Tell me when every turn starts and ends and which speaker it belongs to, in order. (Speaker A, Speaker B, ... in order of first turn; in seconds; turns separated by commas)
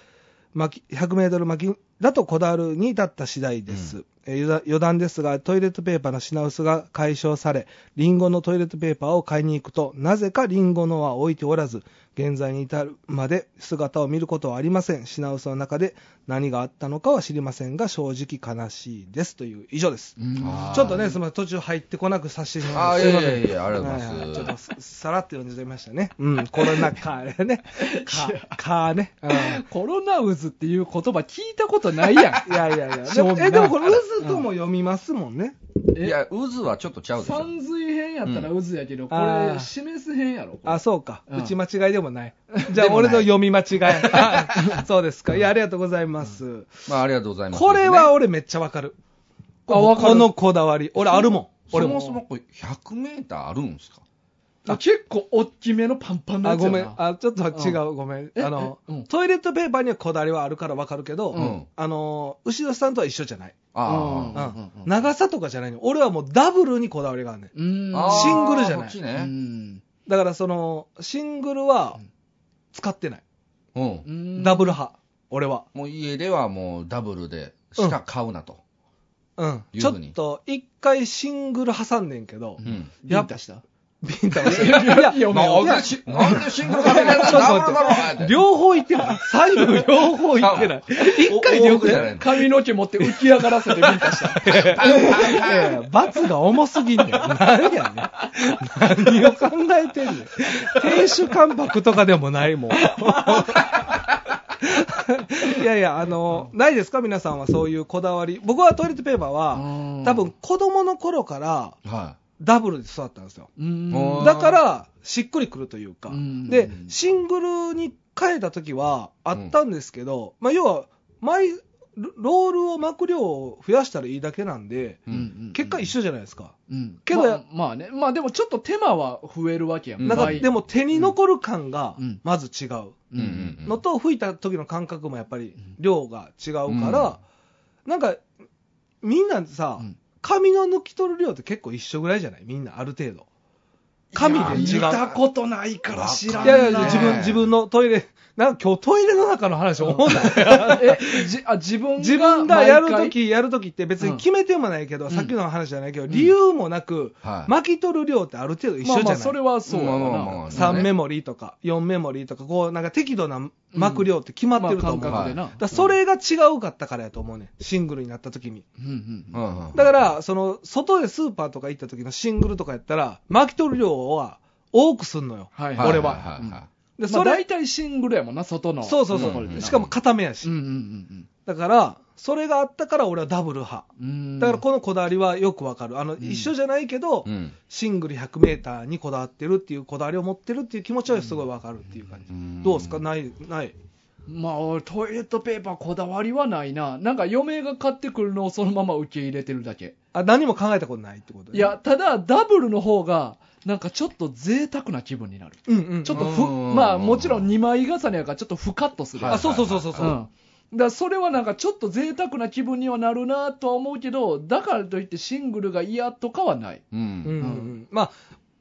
Speaker A: 0.5-29.6, Speaker B: 20.2-21.1, Speaker C: 20.4-21.1, Speaker C: 22.7-24.5, Speaker B: 27.8-28.6, Speaker B: 29.3-34.5, Speaker A: 32.2-35.5, Speaker B: 35.9-36.2, Speaker C: 36.0-37.5, Speaker B: 37.2-41.5, Speaker C: 38.3-38.5, Speaker A: 39.1-39.7, Speaker A: 40.6-46.9, Speaker B: 42.5-43.3, Speaker C: 42.8-43.2, Speaker B: 44.2-44.8, Speaker C: 46.9-48.1, Speaker A: 47.5-49.0, Speaker A: 49.7-52.1, Speaker B: 49.7-50.4, Speaker B: 51.0-52.2, Speaker C: 51.7-54.0, Speaker B: 54.7-57.0, Speaker A: 56.4-63.6, Speaker B: 57.5-57.8, Speaker B: 58.4-59.1, Speaker B: 61.3-61.6, Speaker C: 61.3-61.7, Speaker C: 63.7-64.4, Speaker B: 63.9-64.9, Speaker A: 64.3-69.0, Speaker B: 67.5-68.6, Speaker C: 67.9-69.3, Speaker B: 69.2-69.8, Speaker A: 70.1-72.0, Speaker A: 72.7-73.2, Speaker C: 73.8-74.1, Speaker B: 74.0-74.8, Speaker A: 74.3-75.7, Speaker C: 75.8-78.6, Speaker A: 79.4-83.3, Speaker C: 79.7-80.2, Speaker B: 82.6-83.6, Speaker C: 82.6-82.9, Speaker A: 84.0-92.2, Speaker B: 84.4-87.5, Speaker C: 84.9-88.4, Speaker C: 90.4-92.4, Speaker B: 91.5-95.5, Speaker A: 93.0-104.1, Speaker C: 94.5-95.8, Speaker B: 102.9-103.9, Speaker A: 104.6-111.8, Speaker B: 109.5-110.3, Speaker C: 111.8-112.2, Speaker A: 112.4-113.5, Speaker B: 113.6-114.5, Speaker C: 113.9-114.6, Speaker A: 114.2-127.4, Speaker B: 116.1-116.9, Speaker B: 125.1-125.8, Speaker B: 126.7-131.1, Speaker C: 130.0-130.5, Speaker A: 130.0-133.1, Speaker B: 133.1-133.6, Speaker C: 133.2-133.8, Speaker A: 133.6-137.2, Speaker C: 136.7-137.1, Speaker A: 137.9-138.2, Speaker A: 139.0-143.3, Speaker C: 144.1-145.2, Speaker A: 144.1-145.1, Speaker B: 144.2-147.3, Speaker C: 145.9-147.5, Speaker A: 146.4-151.3, Speaker B: 149.8-153.2, Speaker A: 152.0-159.4, Speaker C: 157.2-157.5, Speaker B: 158.8-160.9, Speaker C: 159.7-160.9, Speaker A: 160.5-168.7, Speaker B: 163.7-165.9, Speaker C: 165.1-165.4, Speaker B: 168.8-169.4, Speaker C: 169.3-169.9, Speaker A: 169.7-176.3, Speaker B: 175.6-179.9, Speaker C: 175.8-176.7, Speaker A: 177.0-177.4, Speaker A: 178.8-180.5, Speaker C: 179.1-179.9, Speaker B: 180.4-181.3, Speaker A: 181.4-183.9, Speaker B: 184.0-184.6, Speaker A: 184.4-193.8, Speaker B: 186.2-186.5, Speaker C: 187.2-187.6, Speaker C: 192.3-193.0, Speaker B: 194.3-199.9, Speaker A: 200.1-201.8, Speaker B: 201.5-216.8, Speaker A: 205.7-206.4, Speaker C: 206.1-207.5, Speaker C: 209.2-210.2, Speaker A: 209.3-210.2, Speaker C: 216.9-217.4, Speaker A: 217.2-218.1, Speaker B: 217.4-217.7